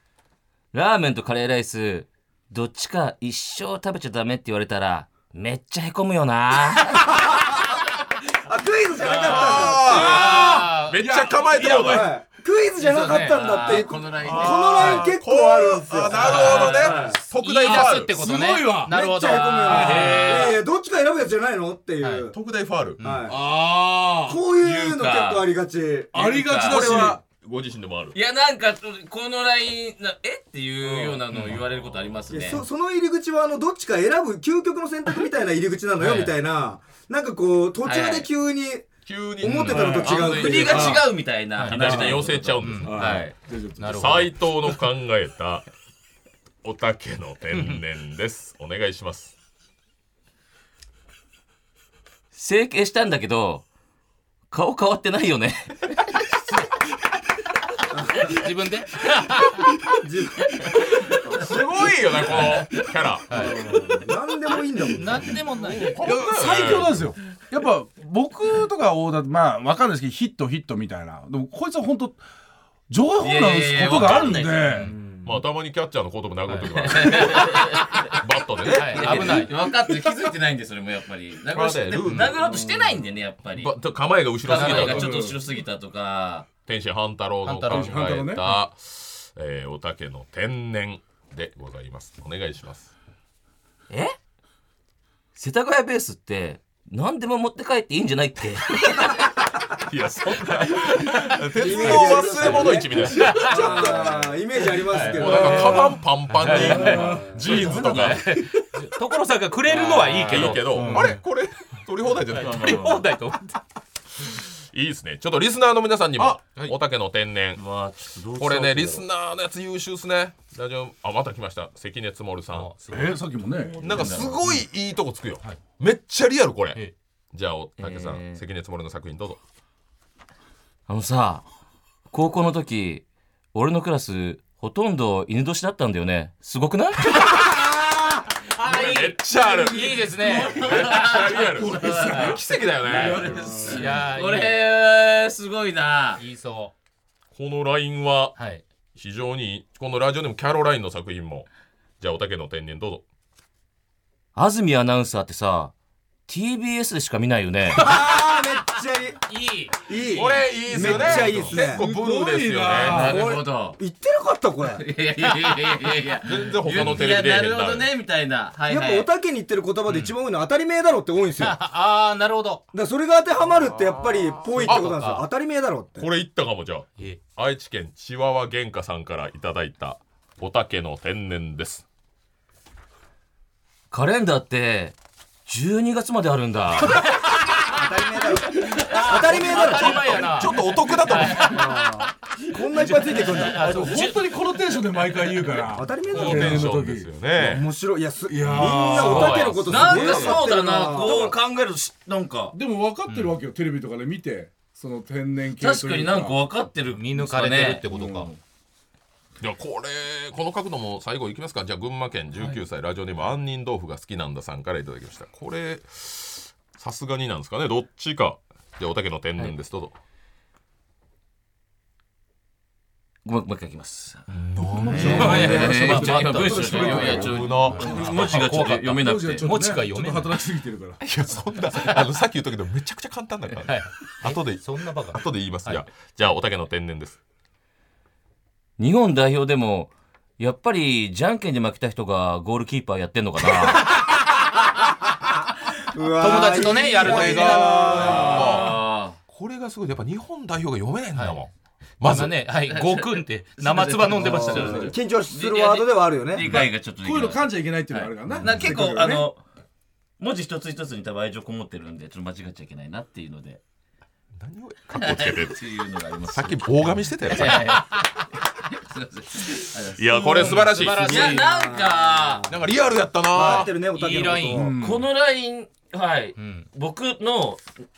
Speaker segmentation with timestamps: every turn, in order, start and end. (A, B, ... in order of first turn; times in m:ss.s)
0:00.7-0:07.2 A
0:07.1-0:07.6 B
0:08.4-0:10.4 B
0:09.0-0:11.0 C
0:09.2-0:12.1 D
0:09.8-0:12.1 E
0:11.7-0:17.2 B
0:12.8-0:13.9 C
0:13.3-0:15.0 A
0:14.3-0:18.2 D
0:16.1-0:20.6 C
0:17.6-0:18.9 E
0:18.9-0:22.4 B
0:19.6-0:20.4 E
0:22.0-0:22.3 C
0:22.3-0:23.0 D
0:23.0-0:23.3 C
0:23.0-0:23.4 B
0:23.3-0:24.4 E
0:24.3-0:26.2 B
0:24.6-0:25.4 A
0:26.1-0:27.2 E
0:26.2-0:26.8 A
0:26.6-0:28.2 D
0:28.1-0:32.6 A
0:30.9-0:31.2 E
0:31.3-0:31.6 C
0:32.3-0:41.0 B
0:36.0-0:36.3 C
0:37.8-0:38.3 A
0:39.1-0:41.0 D
0:39.4-0:40.1 C
0:40.0-0:43.4 A
0:40.6-0:41.1 E
0:41.5-0:43.2 C
0:41.6-0:43.2 D
0:42.8-0:44.1 E
0:43.8-0:44.3 C
0:43.9-0:45.7 D
0:46.6-0:49.3 D
0:47.5-0:47.8 C
0:52.3-0:53.6 A
0:54.5-0:56.2 A
0:57.9-0:58.4 B
0:58.4-0:59.6 C
0:59.9-1:01.6 B
1:01.3-1:03.5 D
1:02.3-1:02.6 C
1:03.3-1:03.6 C
1:03.3-1:05.4 B
1:05.0-1:06.0 C
1:05.5-1:07.1 D
1:06.0-1:12.2 E
1:12.9-1:15.0 E
1:13.2-1:14.7 A
1:14.7-1:15.0 C
1:14.9-1:15.3 B
1:15.2-1:19.5 D
1:16.5-1:16.7 C
1:16.8-1:18.2 A
1:18.6-1:19.5 C
1:18.7-1:23.7 A
1:19.4-1:20.3 E
1:21.5-1:22.4 D
1:22.0-1:22.4 C
1:23.5-1:25.1 D
1:24.4-1:26.5 A
1:24.5-1:25.4 E
1:24.6-1:24.9 C
1:26.6-1:32.9 D
1:27.4-1:28.0 C
1:27.7-1:28.5 E
1:33.9-1:34.2 A
1:35.4-1:39.3 A
1:39.8-1:44.3 D
1:41.6-1:45.9 B
1:42.2-1:42.7 A
1:43.1-1:43.6 C
1:43.5-1:43.9 A
1:44.9-1:45.9 A
1:45.0-1:48.2 D
1:45.2-1:48.6 E
1:46.3-1:51.2 C
1:46.4-1:48.3 A
1:49.7-1:50.7 A
1:50.2-1:52.9 D
1:50.7-1:51.2 E
1:52.3-1:53.6 C
1:52.4-1:53.1 A
1:54.4-1:57.6 D
1:57.6-1:59.0 A
1:58.3-2:02.8 D
2:02.5-2:03.2 C
2:02.9-2:04.0 E
2:03.6-2:04.6 A
2:03.8-2:09.4 D
2:07.8-2:08.4 A
2:10.9-2:11.4 A
2:12.1-2:17.5 A
2:17.1-2:17.8 D
2:18.6-2:23.5 D
2:18.6-2:26.2 A
2:19.4-2:21.4 C
2:21.6-2:23.9 E
2:23.7-2:24.6 C
2:26.2-2:26.7 C
2:27.3-2:28.4 D
2:28.4-2:28.6 C
2:29.0-2:31.5 D
2:32.0-2:33.0 D
2:34.4-2:35.7 A
2:36.3-2:37.9 A
2:37.8-2:39.2 B
2:39.3-2:41.3 C
2:39.8-2:41.9 B
2:40.1-2:43.1 D
2:40.8-2:43.2 E
2:42.8-2:43.8 A
2:43.0-2:44.8 B
2:44.7-2:49.1 A
2:46.2-2:47.9 D
2:46.7-2:47.1 C
2:48.7-2:51.6 B
2:49.9-2:50.1 C
2:51.4-2:52.6 C
2:52.7-2:56.1 B
2:53.5-2:55.2 D
2:54.6-2:55.2 C
2:56.0-3:01.8 D
3:03.9-3:07.1 A
3:07.0-3:07.8 C
3:07.7-3:10.3 B
3:08.6-3:11.9 C
3:09.4-3:11.6 D
3:11.1-3:13.7 B
3:12.8-3:14.4 C
3:12.8-3:17.1 E
3:15.0-3:15.5 C
3:15.7-3:16.7 B
3:16.1-3:16.6 C
3:16.2-3:17.7 D
3:17.3-3:21.3 B
3:18.3-3:19.9 E
3:18.5-3:20.3 D
3:19.0-3:22.6 A
3:22.5-3:26.4 E
3:23.1-3:23.4 C
3:25.6-3:28.4 A
3:26.9-3:28.3 C
3:29.4-3:40.0 D
3:43.2-3:44.3 A
3:44.3-3:45.8 D
3:44.6-3:51.0 E
3:44.9-3:49.5 A
3:45.0-3:50.4 C
3:46.7-3:48.3 D
3:51.0-3:57.2 D
3:53.5-3:55.9 C
3:58.8-4:04.0 A
4:05.9-4:08.4 B
4:06.2-4:08.0 C
4:07.0-4:08.7 E
4:07.0-4:08.8 D
4:07.9-4:09.2 A
4:09.3-4:12.4 D
4:11.2-4:11.4 C
4:12.0-4:14.9 C
4:12.7-4:19.4 A
4:14.2-4:16.6 B
4:16.4-4:19.3 E
4:20.2-4:23.6 A
4:24.4-4:25.6 D
4:24.9-4:28.0 A
4:26.3-4:27.8 D
4:28.6-4:32.5 A
4:30.0-4:31.3 D
4:30.1-4:31.7 C
4:31.0-4:32.6 B
4:32.5-4:33.7 D
4:33.3-4:34.7 B
4:33.4-4:34.7 C
4:34.5-4:35.1 E
4:34.8-4:37.6 A
4:36.4-4:36.7 C